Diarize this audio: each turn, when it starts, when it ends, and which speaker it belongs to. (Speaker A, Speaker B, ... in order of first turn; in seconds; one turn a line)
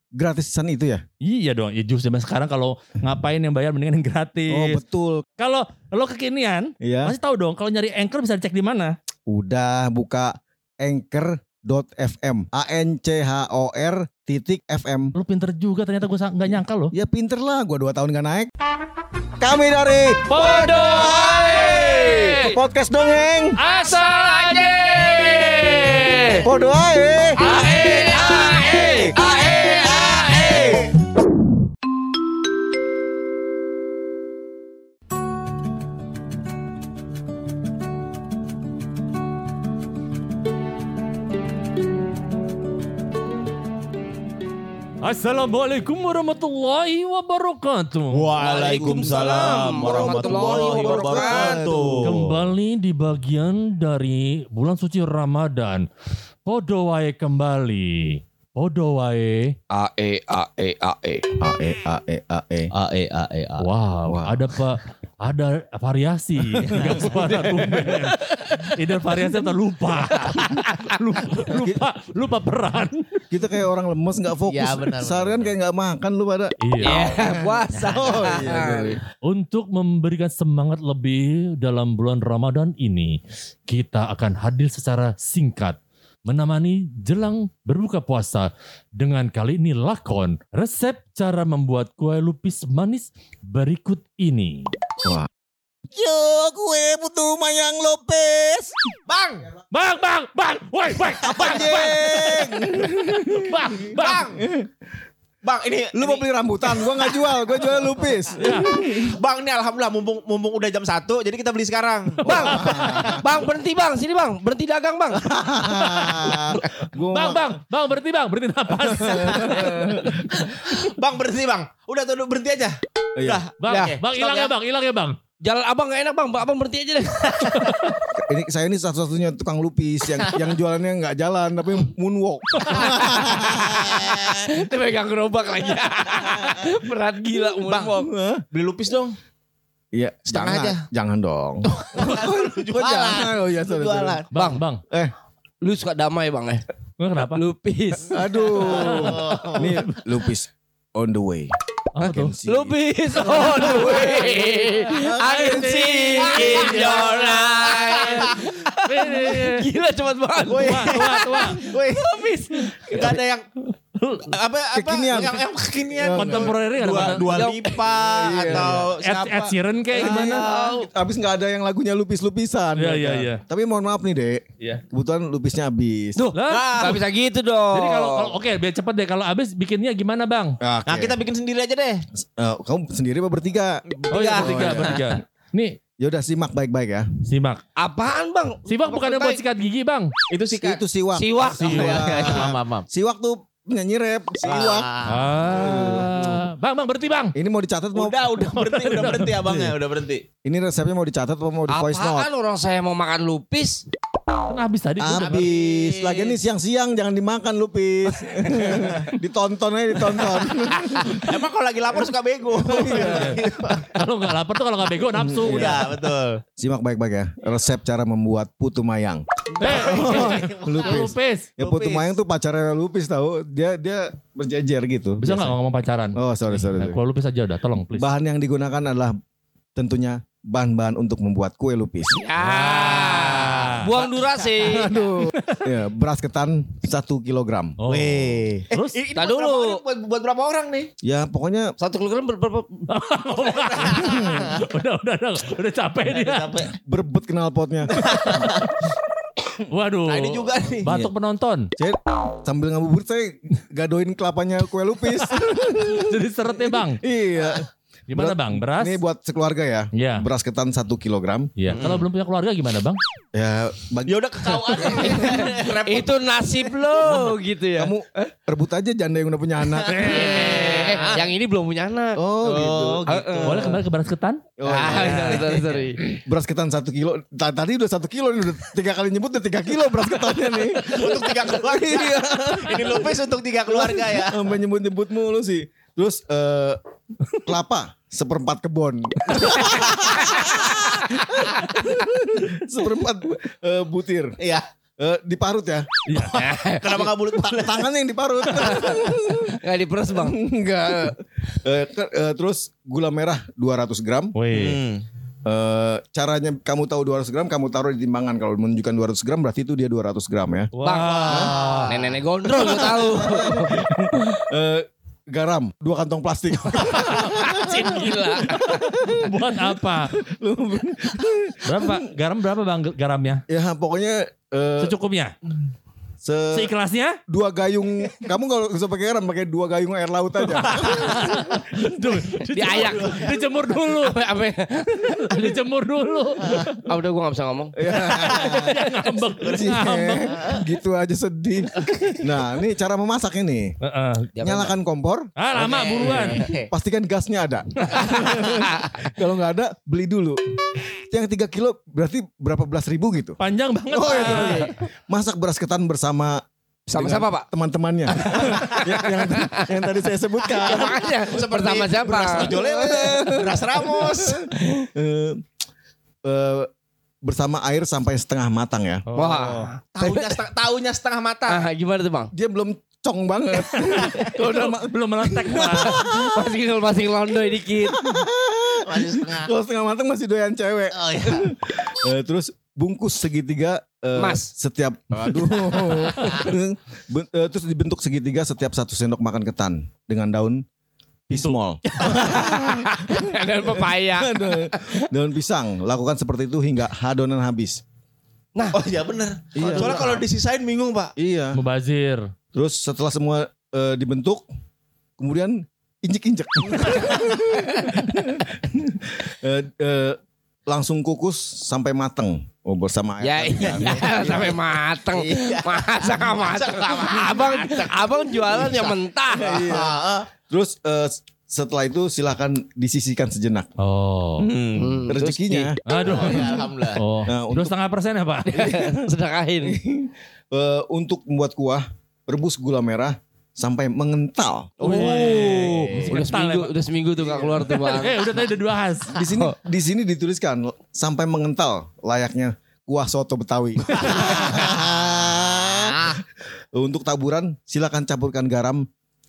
Speaker A: 0.2-1.0
Speaker B: 1.2-4.8
Speaker A: 4.5-5.3
Speaker B: 5.4-9.0
Speaker A: 6.8-7.2
Speaker A: 9.3-15.2
Speaker B: 15.2-16.9
Speaker A: 16.9-18.5
Speaker A: 19.4-23.6
Speaker B: 20.3-22.6
Speaker B: 23.6-26.4
Speaker A: 26.4-27.4
Speaker C: 27.4-30.8
Speaker B: 27.5-28.9
Speaker D: 28.6-29.1
Speaker D: 29.7-30.9
Speaker B: 45.0-48.3
Speaker D: 48.1-52.5
Speaker C: 48.4-51.7
Speaker A: 48.8-52.1
Speaker B: 52.0-55.9
Speaker B: 56.5-59.6
Speaker C: 59.7-61.3
Speaker A: 61.4-62.7
Speaker C: 62.7-63.7
Speaker B: 63.6-73.2
Speaker A: 64.1-64.5
Speaker C: 66.5-69.3
Speaker C: 70.1-70.9
Speaker A: 71.6-71.8
Speaker A: 73.3-77.3
Speaker C: 74.5-75.3
Speaker B: 76.6-77.0
Speaker C: 76.8-79.0
Speaker A: 77.8-79.0
Speaker B: 79.2-94.7
Speaker A: 95.9-98.7
Speaker D: 99.1-99.5
Speaker B: 99.7-104.2
Speaker A: 101.2-104.7
Speaker D: 103.9-104.4
Speaker D: 105.4-107.2
Speaker A: 105.9-109.2
Speaker B: 108.4-108.8
Speaker D: 109.0-113.2
Speaker C: 112.3-115.3
Speaker B: 112.3-113.2
Speaker A: 112.3-113.2
Speaker A: 115.2-117.6
Speaker B: 115.7-120.1
Speaker A: 118.8-120.2
Speaker D: 120.1-124.5
Speaker A: 123.2-123.4
Speaker B: 123.6-125.2
Speaker C: 125.4-127.6
Speaker B: 127.6-127.9
Speaker A: 128.2-134.3
Speaker C: 132.7-138.1
Speaker D: 133.7-134.4
Speaker D: 137.7-138.0
Speaker A: 137.9-138.4
Speaker D: 138.5-139.2
Speaker A: 139.9-144.2
Speaker D: 140.3-140.9
Speaker D: 141.8-144.3
Speaker B: 144.3-144.8
Speaker C: 144.3-144.6
Speaker C: 145.6-146.7
Speaker B: 147.0-147.4
Speaker C: 147.2-148.3
Speaker A: 148.1-152.8
Speaker D: 148.6-149.7
Speaker B: 148.7-149.2
Speaker B: 152.0-152.3
Speaker C: 152.5-163.2
Speaker B: 153.4-157.3
Speaker A: 153.6-154.1
Speaker D: 153.6-154.3
Speaker D: 156.2-158.5
Speaker B: 157.9-159.7
Speaker D: 160.5-163.5
Speaker B: 160.5-161.6
Speaker B: 164.0-164.3
Speaker D: 164.2-170.9
Speaker A: 164.7-165.4
Speaker A: 165.9-166.6
Speaker B: 166.1-167.5
Speaker C: 167.2-168.7
Speaker A: 167.9-168.9
Speaker B: 169.0-170.4
Speaker A: 169.9-176.2
Speaker B: 172.8-173.4
Speaker C: 176.2-178.4
Speaker B: 176.3-176.9
Speaker D: 176.5-177.0
Speaker B: 177.7-180.6
Speaker A: 180.6-181.2
Speaker D: 180.9-182.1
Speaker A: 182.4-183.8
Speaker D: 184.0-185.1
Speaker B: 184.1-185.8
Speaker A: 184.3-185.1
Speaker A: 186.0-187.1
Speaker B: 187.3-187.6
Speaker C: 187.8-189.4
Speaker B: 188.7-190.1
Speaker D: 190.3-190.8
Speaker A: 190.6-196.1
Speaker C: 191.1-192.8
Speaker B: 191.5-192.1
Speaker D: 191.6-192.6
Speaker D: 194.4-196.1
Speaker B: 195.1-197.3
Speaker A: 197.3-198.3
Speaker D: 197.9-200.2
Speaker B: 198.5-199.3
Speaker A: 199.4-199.8
Speaker A: 200.4-202.3
Speaker C: 201.7-203.8
Speaker B: 204.5-205.5
Speaker A: 205.0-211.4
Speaker D: 205.2-206.4
Speaker D: 210.9-213.9
Speaker A: 212.6-213.8
Speaker B: 212.9-215.9
Speaker A: 215.1-216.0
Speaker D: 215.4-216.4
Speaker A: 216.6-225.6
Speaker D: 219.6-222.2
Speaker B: 219.6-221.5
Speaker B: 225.2-228.1
Speaker A: 226.2-227.0
Speaker A: 227.9-229.2
Speaker A: 229.8-232.2
Speaker C: 232.2-235.0
Speaker B: 232.4-233.9
Speaker D: 233.9-234.8
Speaker A: 234.6-237.8
Speaker B: 237.8-239.0
Speaker D: 237.9-240.9
Speaker C: 239.2-239.8
Speaker A: 241.0-241.7
Speaker C: 241.8-242.8
Speaker B: 242.9-246.5
Speaker D: 243.3-244.4
Speaker A: 244.0-244.5
Speaker D: 246.1-246.7
Speaker A: 246.8-248.4
Speaker D: 247.9-248.8
Speaker B: 249.7-251.7
Speaker D: 250.1-251.1
Speaker A: 251.8-261.9
Speaker B: 255.2-257.0
Speaker B: 258.1-259.0
Speaker B: 259.9-260.3
Speaker B: 261.6-263.0
Speaker D: 261.7-262.1
Speaker A: 263.3-264.2
Speaker D: 264.1-266.4
Speaker C: 264.9-268.3
Speaker A: 267.0-270.1
Speaker D: 269.7-271.2
Speaker B: 269.9-271.0
Speaker C: 270.0-272.2
Speaker A: 272.2-273.7
Speaker D: 272.4-273.7
Speaker C: 273.1-273.8
Speaker B: 273.4-275.5
Speaker A: 274.6-283.2
Speaker C: 274.6-276.0
Speaker D: 280.9-284.4
Speaker A: 283.7-286.8
Speaker A: 287.3-294.4
Speaker D: 294.4-294.6
Speaker A: 295.0-295.9
Speaker B: 296.1-296.4
Speaker C: 296.3-297.1
Speaker D: 296.8-297.9
Speaker A: 297.5-299.6
Speaker D: 298.6-299.0
Speaker C: 298.7-300.4
Speaker A: 300.1-304.4
Speaker B: 304.4-304.8
Speaker D: 304.5-305.1
Speaker A: 305.4-310.7
Speaker B: 310.7-311.9
Speaker C: 310.8-313.9
Speaker A: 311.2-311.6
Speaker A: 312.5-322.1
Speaker C: 317.0-318.8
Speaker B: 319.0-320.1
Speaker B: 321.6-323.4
Speaker A: 323.5-324.9
Speaker B: 324.8-325.3
Speaker A: 326.2-326.7
Speaker B: 326.5-327.2
Speaker A: 327.3-331.8
Speaker B: 330.7-334.2
Speaker C: 332.5-335.3
Speaker B: 335.0-336.8
Speaker C: 336.8-337.8
Speaker A: 337.8-338.8
Speaker B: 338.2-340.4
Speaker D: 339.4-339.8
Speaker A: 339.4-343.8
Speaker B: 343.8-344.3
Speaker C: 344.4-344.8
Speaker A: 344.4-353.4
Speaker B: 345.4-346.4
Speaker C: 345.7-346.5
Speaker D: 346.0-346.7
Speaker C: 348.3-348.9
Speaker B: 353.4-354.7
Speaker D: 353.9-354.6
Speaker C: 354.1-354.7
Speaker A: 354.3-356.4
Speaker C: 356.9-357.5
Speaker A: 356.9-361.2
Speaker C: 358.2-359.8
Speaker D: 358.5-359.0
Speaker D: 360.5-364.5
Speaker C: 360.5-363.3
Speaker A: 362.2-365.4
Speaker C: 364.6-364.9
Speaker A: 366.2-366.7
Speaker A: 367.2-369.1
Speaker B: 369.1-369.7
Speaker C: 369.2-370.4
Speaker D: 370.0-371.6
Speaker C: 371.5-372.3
Speaker A: 372.3-376.6
Speaker C: 374.4-374.7
Speaker B: 374.4-376.0
Speaker C: 375.6-378.0
Speaker A: 377.8-390.6
Speaker D: 378.8-379.5
Speaker D: 380.9-381.5
Speaker C: 384.2-384.5
Speaker A: 391.3-397.8
Speaker C: 392.0-395.1
Speaker D: 398.7-401.1
Speaker A: 399.6-400.2
Speaker C: 399.6-400.1
Speaker A: 401.2-401.6
Speaker B: 401.5-402.3
Speaker A: 402.5-404.5
Speaker A: 405.2-414.6
Speaker D: 406.8-407.3
Speaker C: 413.2-419.6
Speaker D: 414.2-414.6
Speaker D: 415.1-420.3
Speaker A: 419.3-423.7
Speaker B: 423.8-424.5
Speaker D: 424.4-425.0
Speaker C: 424.8-426.3
Speaker A: 425.1-425.8
Speaker B: 425.9-428.7
Speaker D: 425.9-427.0
Speaker A: 427.3-427.7
Speaker C: 428.5-429.8
Speaker A: 428.6-429.1
Speaker A: 429.6-436.1
Speaker C: 434.8-438.3
Speaker B: 434.8-436.7
Speaker D: 435.0-435.8
Speaker A: 437.2-437.8
Speaker B: 437.7-439.2
Speaker A: 439.1-446.2
Speaker C: 439.2-439.6
Speaker C: 444.1-444.7
Speaker C: 445.8-446.2
Speaker A: 446.7-448.8